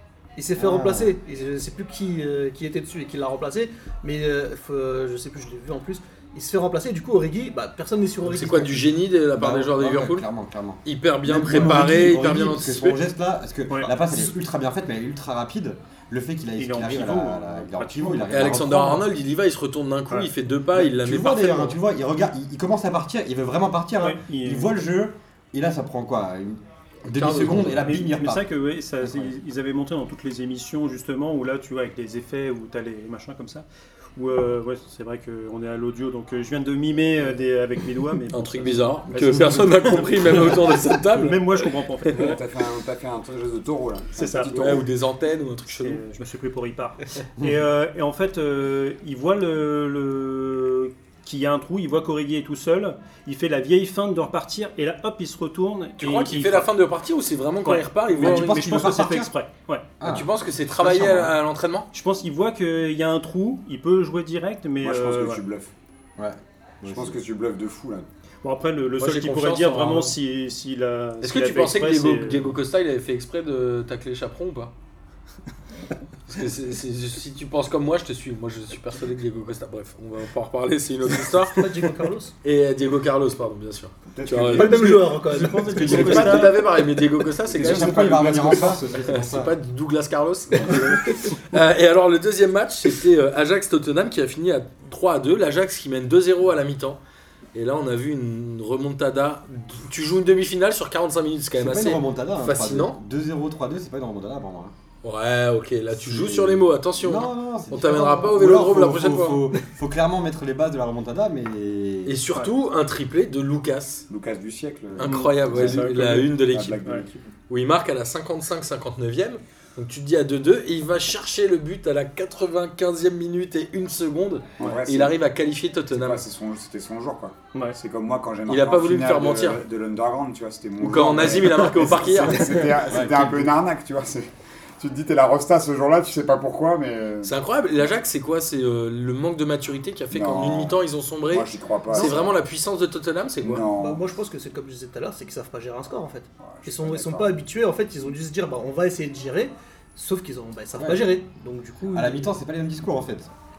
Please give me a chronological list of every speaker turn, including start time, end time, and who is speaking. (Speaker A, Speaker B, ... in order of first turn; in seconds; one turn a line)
Speaker A: 0.3-8.9
Speaker B: 0.6-1.1
Speaker C: 8.2-10.3
Speaker B: 9.3-19.1
Speaker C: 10.8-13.0
Speaker D: 13.7-13.9
Speaker D: 16.6-18.5
Speaker C: 18.3-21.8
Speaker B: 20.7-28.5
Speaker D: 24.0-24.8
Speaker D: 27.4-33.6
Speaker B: 29.0-29.4
Speaker D: 34.1-42.4
Speaker C: 38.3-41.4
Speaker E: 42.1-44.9
Speaker D: 44.1-44.8
Speaker C: 44.5-46.0
Speaker D: 45.8-56.7
Speaker C: 56.0-58.9
Speaker D: 57.6-59.9
Speaker B: 58.2-59.3
Speaker B: 60.0-61.3
Speaker C: 60.0-61.9
Speaker D: 61.9-65.4
Speaker E: 64.8-65.7
Speaker B: 66.2-67.2
Speaker E: 66.8-68.0
Speaker D: 68.4-72.5
Speaker C: 69.0-70.2
Speaker C: 71.2-74.7
Speaker C: 76.3-81.7
Speaker A: 81.4-82.3
Speaker C: 82.4-85.2
Speaker E: 84.1-84.8
Speaker A: 84.5-86.5
Speaker D: 85.2-86.6
Speaker C: 85.7-97.0
Speaker B: 85.8-86.3
Speaker E: 87.5-89.2
Speaker B: 87.5-89.5
Speaker C: 97.5-103.0
Speaker B: 101.6-104.7
Speaker C: 105.0-109.6
Speaker B: 105.9-112.2
Speaker C: 112.0-114.0
Speaker E: 114.1-117.3
Speaker C: 115.0-116.8
Speaker D: 115.0-116.3
Speaker C: 117.5-126.2
Speaker E: 124.6-125.2
Speaker E: 125.9-137.3
Speaker C: 128.5-129.6
Speaker C: 130.8-132.7
Speaker B: 132.9-133.5
Speaker C: 137.2-143.7
Speaker E: 140.1-142.3
Speaker E: 143.4-144.0
Speaker A: 143.7-152.2
Speaker E: 146.4-147.3
Speaker B: 150.8-151.1
Speaker B: 151.9-153.3